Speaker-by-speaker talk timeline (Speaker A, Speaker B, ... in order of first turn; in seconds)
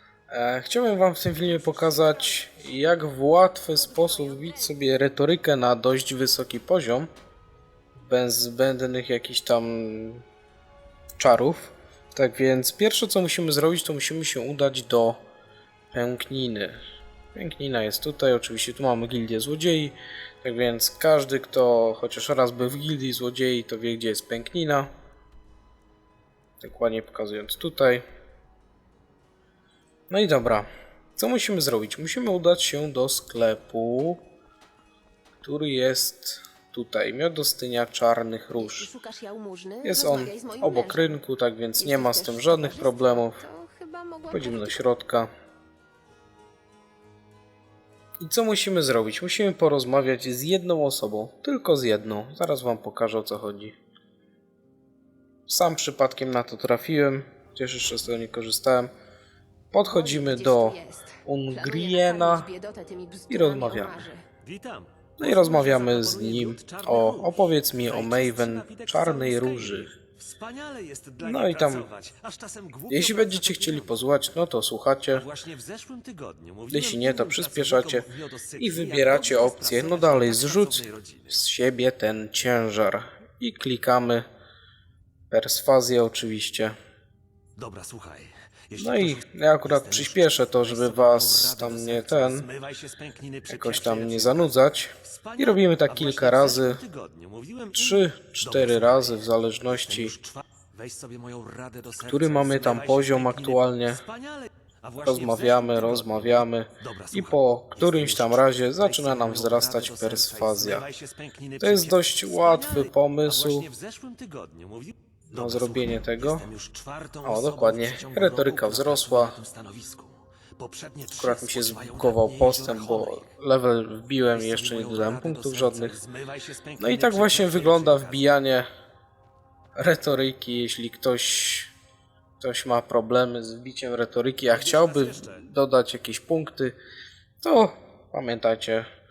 Speaker A: 0.3-7.1, 7.9-10.2, 11.2-15.2, 15.9-16.8, 17.3-24.9, 26.6-28.0, 30.1-34.2, 35.4-38.9, 39.8-43.4, 44.3-45.3, 48.2-53.7, 55.5-58.9, 59.7-62.5, 63.3-64.0, 65.2-69.9, 71.2-71.9, 72.9-75.2, 76.7-84.2, 85.3-86.7, 88.8-92.5, 93.5-96.8, 97.7-100.1, 102.0-104.0, 105.0-110.8, 111.6-113.7, 115.3-116.5, 117.2-119.4, 121.1-126.0, 126.8-128.7, 129.8-131.7, 132.4-136.8, 137.4-138.9
Speaker B: 1.6-2.6, 3.7-4.8, 38.5-41.2, 41.8-44.8, 59.8-64.2
Speaker C: 64.4-74.0, 75.1-81.4, 87.5-94.5, 95.1-123.3, 124.3-128.3, 134.5-135.4